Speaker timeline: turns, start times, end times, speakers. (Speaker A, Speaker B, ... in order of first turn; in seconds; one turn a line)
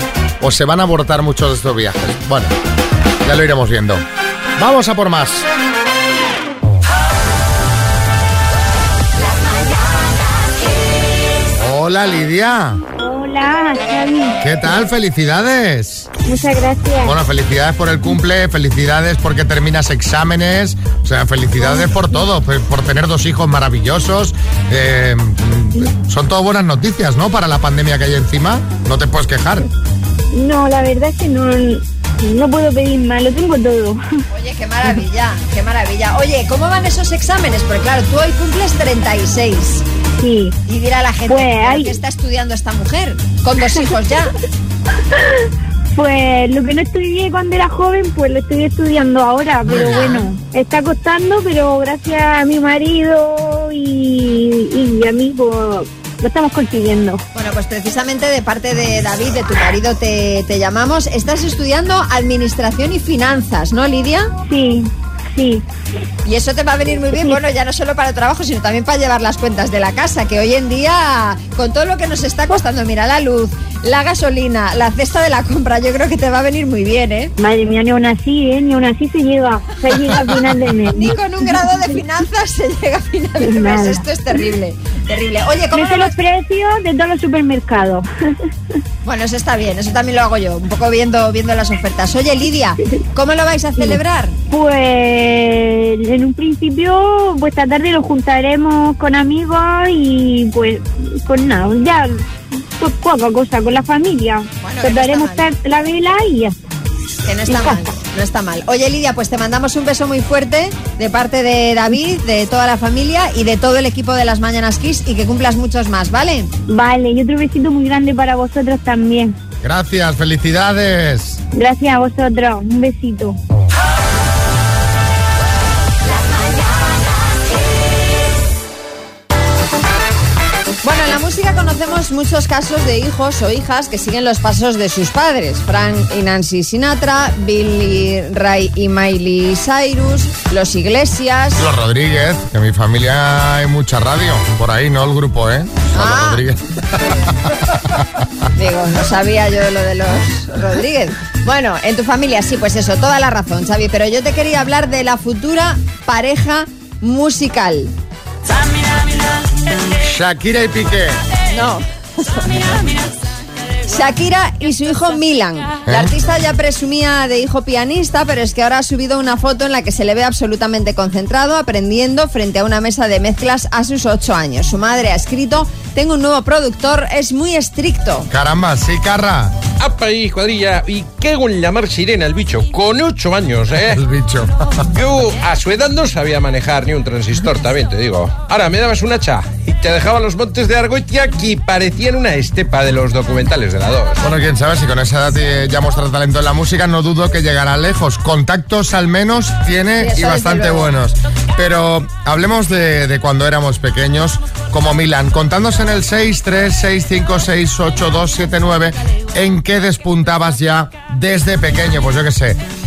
Speaker A: 0.4-2.5
Speaker A: 3.2-4.0
Speaker A: 4.6-5.5
Speaker A: 11.6-12.8
Speaker B: 13.0-14.4
Speaker A: 14.4-16.1
Speaker B: 16.2-17.1
Speaker A: 17.0-29.7
Speaker B: 30.3-34.0
Speaker C: 34.3-39.8
Speaker B: 40.2-40.5
Speaker C: 40.7-44.3
Speaker B: 41.3-42.0
Speaker B: 45.9-57.2
Speaker A: 49.6-50.3
Speaker C: 57.3-64.3
Speaker B: 64.5-65.6
Speaker C: 66.2-77.3
Speaker B: 77.4-81.6
Speaker C: 80.9-86.1
Speaker B: 83.4-84.0
Speaker B: 85.7-88.0
Speaker C: 89.0-94.4
Speaker B: 94.5-102.2
Speaker B: 102.8-106.6
Speaker C: 104.6-105.4
Speaker C: 107.2-116.5
Speaker B: 116.7-119.3
Speaker A: 119.6-121.4
Speaker B: 121.5-123.4
Speaker C: 130.8-141.6
Speaker A: 141.6-146.9
Speaker C: 145.9-146.4
Speaker C: 148.6-157.9
Speaker A: 160.0-161.2
Speaker C: 161.5-162.6
Speaker C: 163.8-178.3
Speaker A: 178.3-179.6
Speaker D: 179.8-184.0
Speaker A: 183.9-184.8
Speaker D: 184.9-194.2
Speaker A: 194.2-212.6
Speaker C: 200.0-200.9